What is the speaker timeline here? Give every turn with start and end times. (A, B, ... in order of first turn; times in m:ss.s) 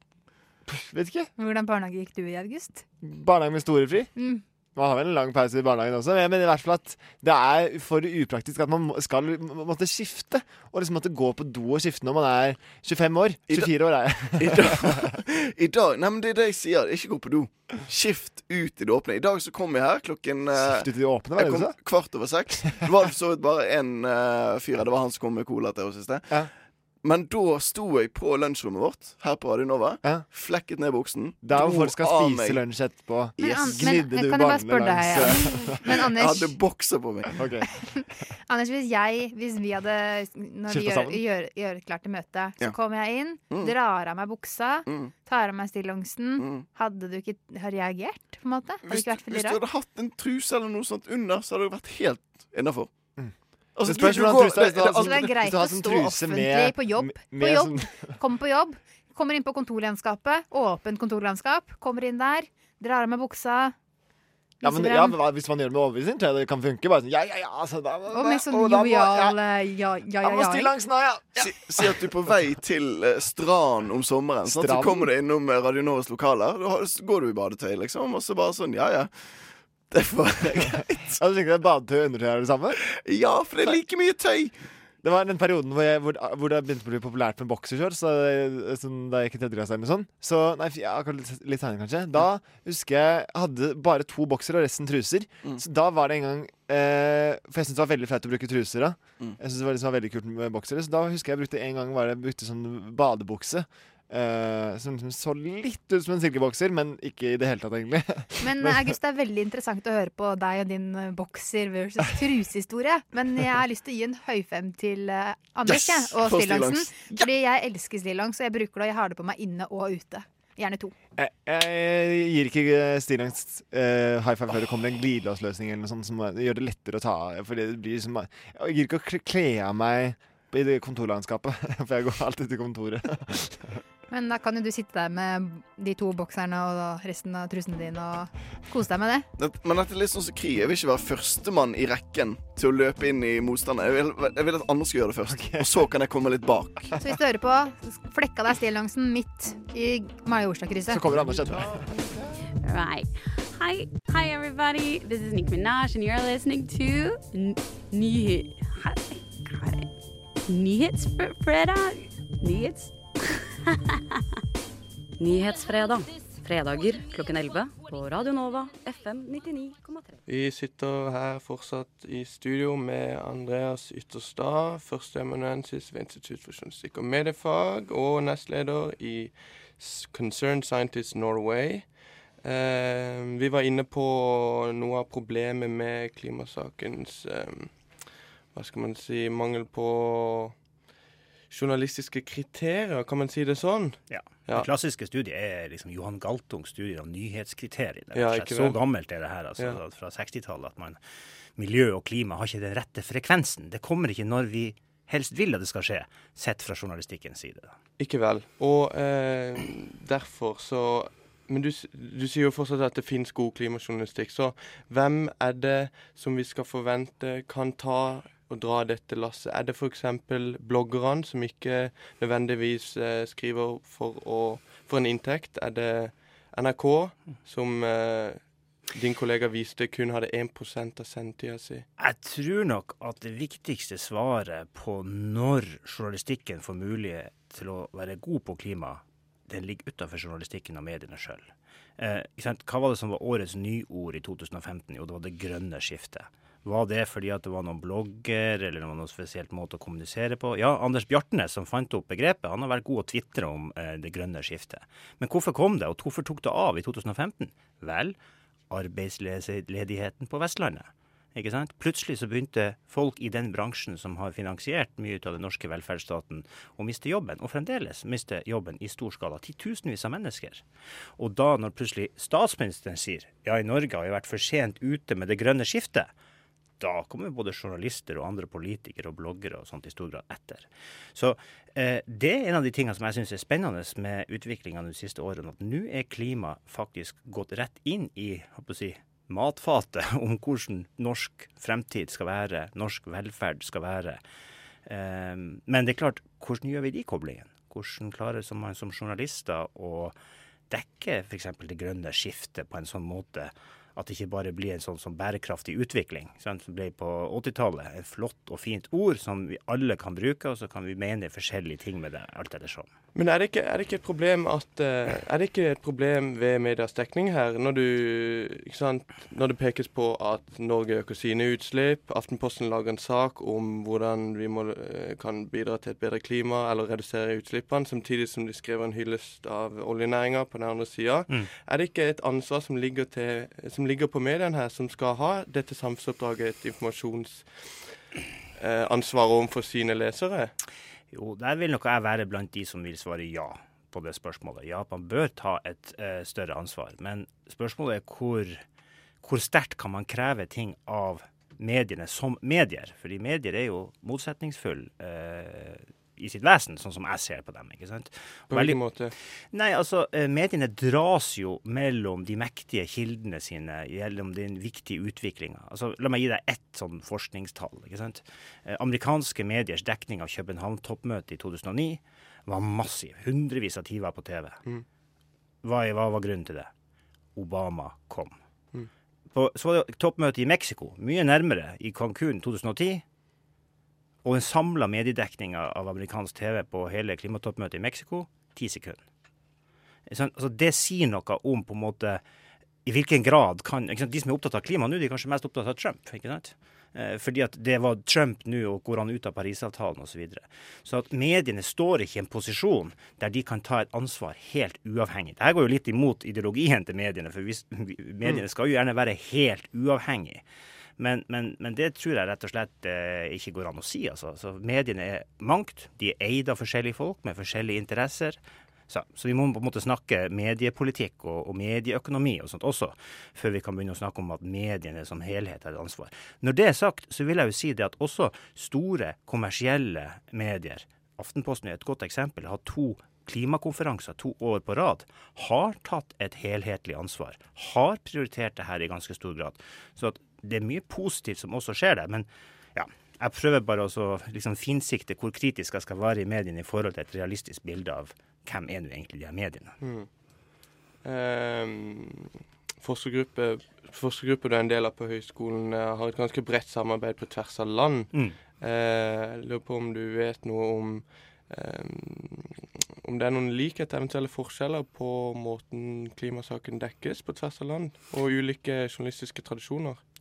0:00.7-0:01.3 A
0:01.4-0:02.8 B
0:03.0-0:04.1 A
0:04.2-0:04.4 B
0:04.8-0:15.1 A
0:14.4-0:26.5 C
0:20.5-0:21.7 A
0:27.0-0:32.6 C
0:31.4-0:35.8 A
0:33.4-0:33.9 C
0:33.4-0:36.6 B
0:36.1-0:37.4 C
0:37.3-0:37.7 A
0:37.8-0:49.6 B
0:40.7-0:41.2 A
0:44.9-0:45.1 C
0:46.4-0:46.6 C
0:48.8-0:52.9 C
0:53.2-0:58.2 A
0:53.7-0:55.3 C
0:54.7-1:03.7 B
1:04.6-1:05.2 B
1:04.6-1:09.4 A
1:08.1-1:10.8 B
1:10.2-1:12.1 A
1:11.4-1:21.2 C
1:14.4-1:15.1 A
1:20.7-1:22.8 A
1:22.8-1:24.6 C
1:25.0-1:48.9 A
1:48.4-2:00.9 B
1:55.6-1:57.2 C
2:01.2-2:13.8 A
2:14.1-2:19.3 B
2:19.4-2:26.9 C
2:25.3-2:25.7 A
2:27.0-2:31.6 B
2:30.9-2:32.1 A
2:32.6-2:39.9 D
2:40.5-2:43.0 D
2:45.2-2:50.2 D
2:50.2-3:10.6 E
3:11.5-3:14.7 E
3:14.1-3:21.0 F
3:18.1-3:18.8 E
3:21.6-3:27.8 F
3:28.0-3:51.8 E
3:52.0-4:18.2 F
4:18.7-4:30.6 F
4:31.2-4:36.1 F
4:36.8-4:54.2 F
4:54.8-5:00.1 F
5:00.7-5:12.9 F
5:13.1-5:37.9 E
5:38.6-5:40.5 E
5:41.1-5:48.6 F
5:49.2-5:58.9 F
5:58.5-5:59.1 E
5:59.5-6:14.6 F
6:15.6-6:16.7 F
6:17.4-6:18.4 F
6:19.3-6:23.0 F
6:24.2-6:29.0 F
6:30.1-6:32.2 F
6:32.8-6:50.4 F
6:51.0-7:29.8 F
7:29.8-7:30.1 E
7:31.0-7:50.0 E